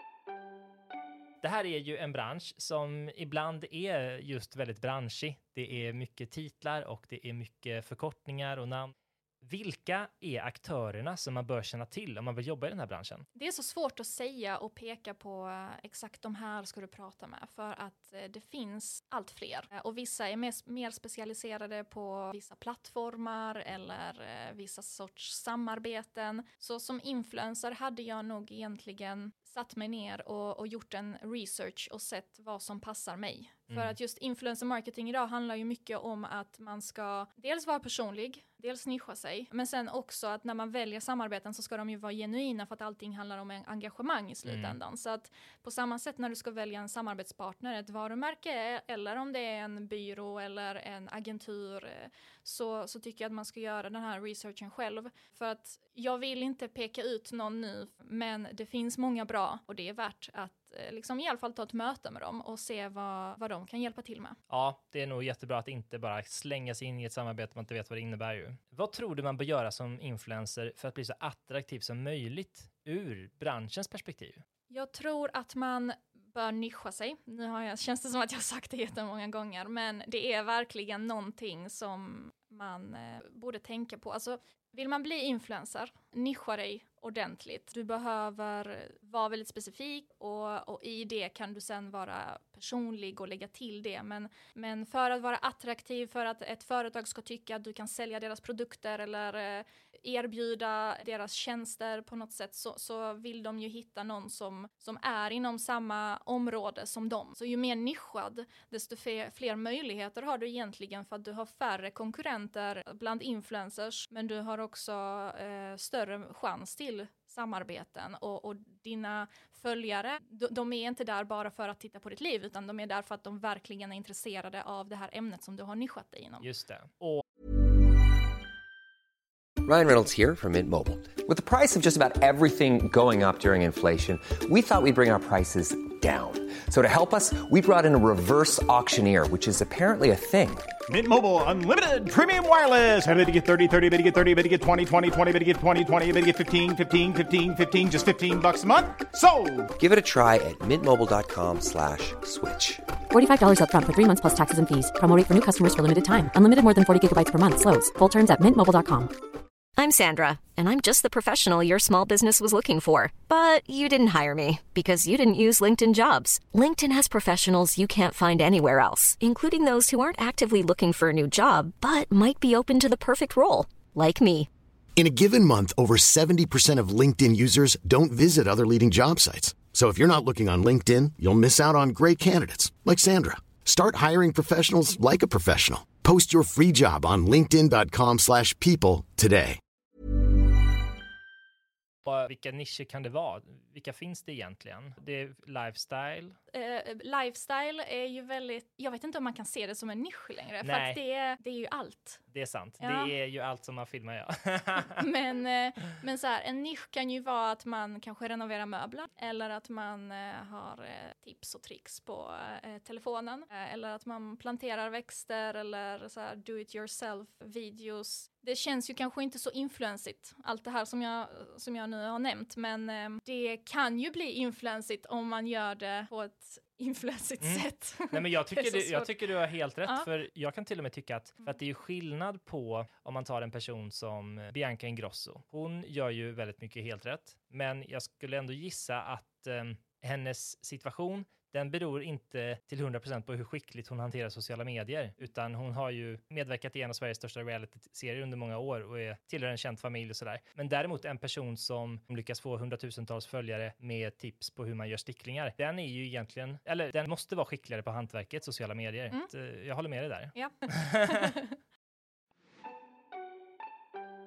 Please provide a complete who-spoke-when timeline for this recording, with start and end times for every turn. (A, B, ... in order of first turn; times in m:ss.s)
0:01.4-0:13.2 A
0:13.3-1:04.4 B
0:33.7-0:33.9 A
0:44.4-0:44.8 A
1:04.5-1:14.4 A
1:14.7-2:06.5 B
2:06.4-2:07.2 A
2:09.6-2:20.7 C
2:20.9-2:29.7 D
2:29.8-2:32.9 C
2:33.1-2:39.2 E
2:39.8-2:54.5 F
2:55.0-3:09.6 G
3:12.0-3:16.4 A
3:16.5-3:22.2 B
3:20.6-3:21.0 A
3:22.3-3:25.0 A
3:22.8-3:23.1 B
3:24.9-3:49.2 B
3:47.4-4:21.3 A
4:20.3-4:21.5 B